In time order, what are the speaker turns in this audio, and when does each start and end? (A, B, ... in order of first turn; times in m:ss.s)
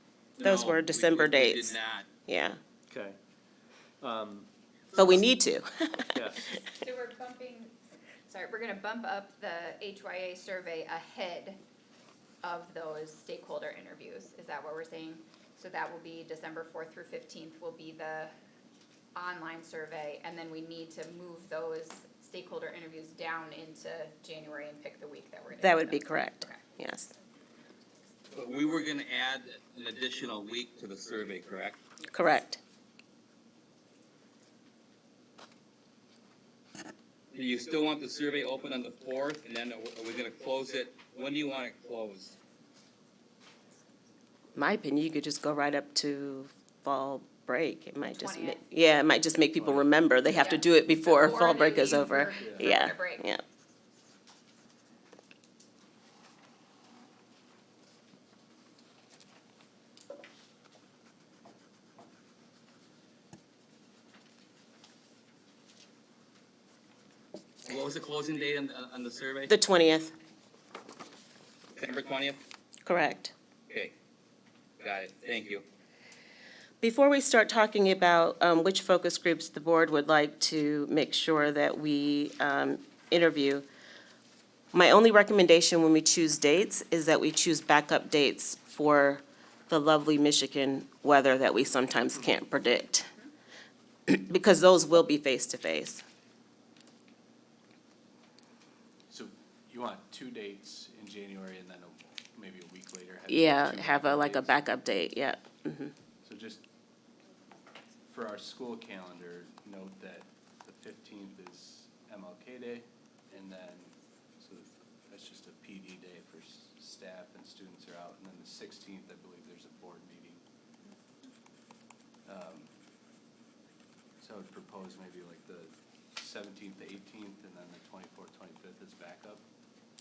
0:00.4-0:02.1 A
0:00.4-0:01.8 B
0:02.3-0:02.6 B
0:02.9-0:03.2 C
0:04.0-0:04.5 C
0:04.9-0:06.6 B
0:06.1-0:06.6 C
0:06.8-0:07.8 D
0:08.3-0:11.6 D
0:12.4-0:18.3 D
0:19.2-0:26.7 D
0:25.6-0:27.1 B
0:28.3-0:31.8 A
0:32.1-0:32.6 B
0:37.3-0:42.4 A
0:44.6-0:53.4 B
0:48.1-0:48.6 D
0:49.6-0:49.9 C
0:50.4-0:53.3 D
0:52.4-0:52.7 C
1:07.6-1:09.5 A
1:09.5-1:10.1 B
1:11.7-1:12.4 A
1:12.8-1:13.3 B
1:13.7-1:14.0 A
1:14.8-1:15.6 A
1:16.8-1:23.6 B
1:24.7-1:33.1 B
1:34.1-1:36.0 B
1:39.1-1:44.6 C
1:43.3-1:45.9 B
1:46.2-1:46.7 C
1:48.1-2:00.4 C
2:02.3-2:02.7 C
2:04.2-2:09.4 C